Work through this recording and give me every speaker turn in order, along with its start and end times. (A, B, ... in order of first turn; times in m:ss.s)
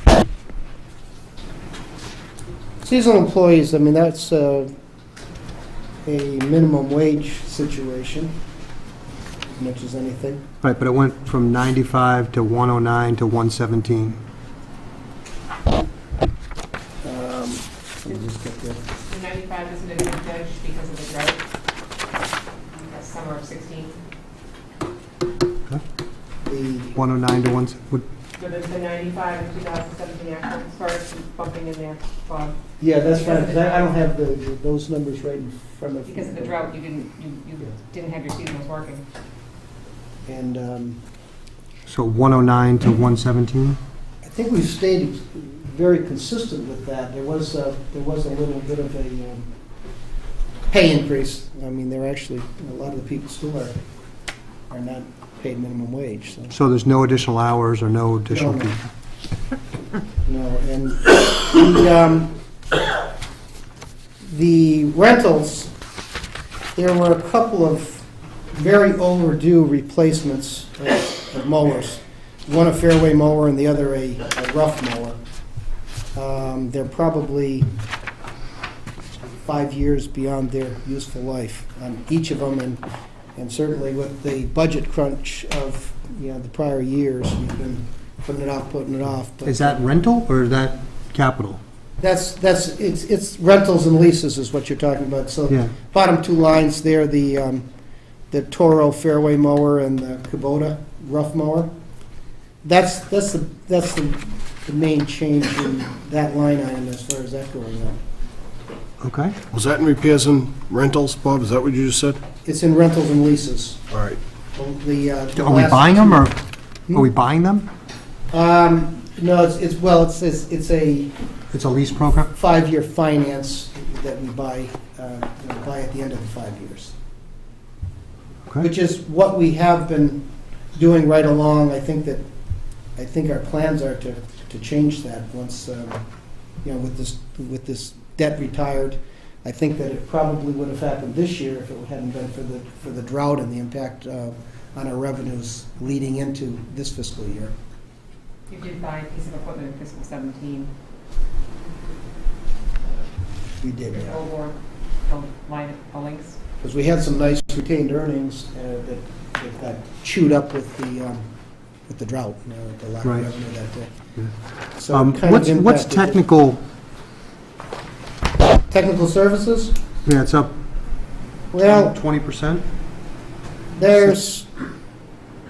0:02.8-0:04.7 A
0:06.0-0:08.3 A
0:09.5-0:10.4 A
0:10.6-0:14.2 B
0:17.0-0:18.8 A
0:19.0-0:21.4 C
0:22.7-0:24.0 C
0:26.4-0:27.0 A
0:27.0-0:28.0 B
0:28.4-0:33.9 C
0:32.8-0:36.7 A
0:36.0-0:39.0 C
0:40.2-0:41.0 A
0:41.9-0:43.8 B
0:44.2-0:49.5 A
0:50.7-0:53.7 A
0:54.7-0:56.5 A
0:56.5-0:58.8 B
0:58.3-0:58.8 A
1:00.2-1:02.3 A
1:04.2-1:05.7 A
1:06.8-1:15.2 A
1:16.1-1:17.7 A
1:19.4-1:22.8 A
1:23.4-1:29.8 A
1:29.4-1:31.6 B
1:32.0-1:37.7 A
1:38.3-1:41.7 A
1:42.6-1:48.0 A
1:49.0-1:49.4 B
1:49.5-1:52.2 D
1:52.4-1:53.8 A
1:53.9-1:54.2 D
1:54.6-1:56.3 A
1:55.4-1:57.7 B
1:58.3-2:01.1 A
2:01.5-2:02.3 B
2:02.3-2:06.9 A
2:08.6-2:10.2 A
2:10.7-2:12.2 A
2:13.0-2:16.0 A
2:16.6-2:27.5 A
2:28.5-2:30.7 C
2:33.6-2:34.2 A
2:33.9-2:36.4 C
2:36.6-2:41.3 A
2:41.9-2:43.9 A
2:44.8-2:46.2 A
2:44.9-2:46.6 B
2:48.7-2:49.8 A
2:50.0-2:50.5 B
2:51.5-2:52.0 A
2:51.6-2:52.6 B
2:53.7-2:54.5 A